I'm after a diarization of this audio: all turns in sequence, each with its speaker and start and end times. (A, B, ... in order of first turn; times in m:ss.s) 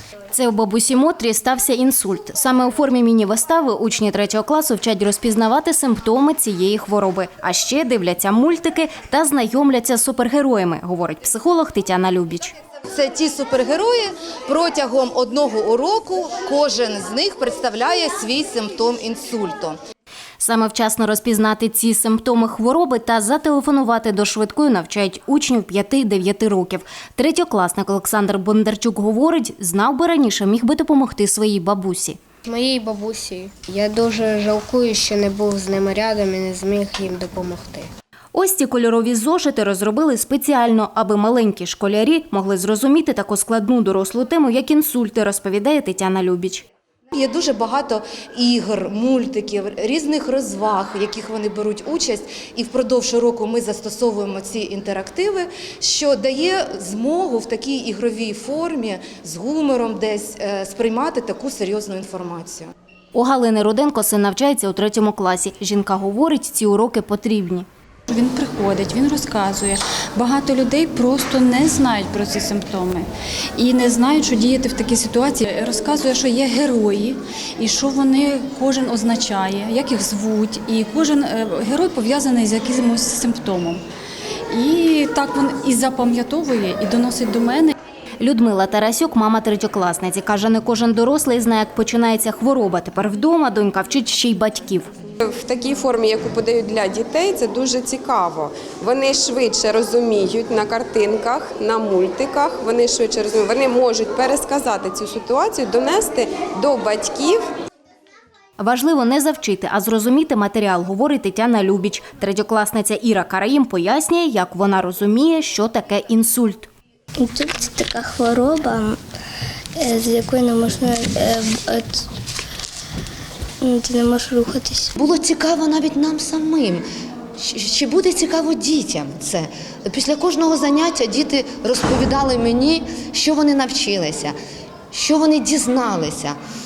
0:00.3-0:12.5 A
0:12.9-0:19.8 B
0:20.4-0:32.2 A
0:32.5-0:37.9 C
0:38.3-0:46.6 A
0:47.1-1:02.7 B
1:03.1-1:07.7 A
1:08.1-1:23.8 D
1:24.5-1:27.7 D
1:28.2-1:34.9 A
1:35.3-1:47.4 E
1:48.6-1:56.7 A
1:57.2-1:59.0 F
1:59.8-2:02.0 F
2:03.6-2:04.8 F
2:05.0-2:06.8 G
2:07.4-2:14.3 G
2:14.9-2:16.3 G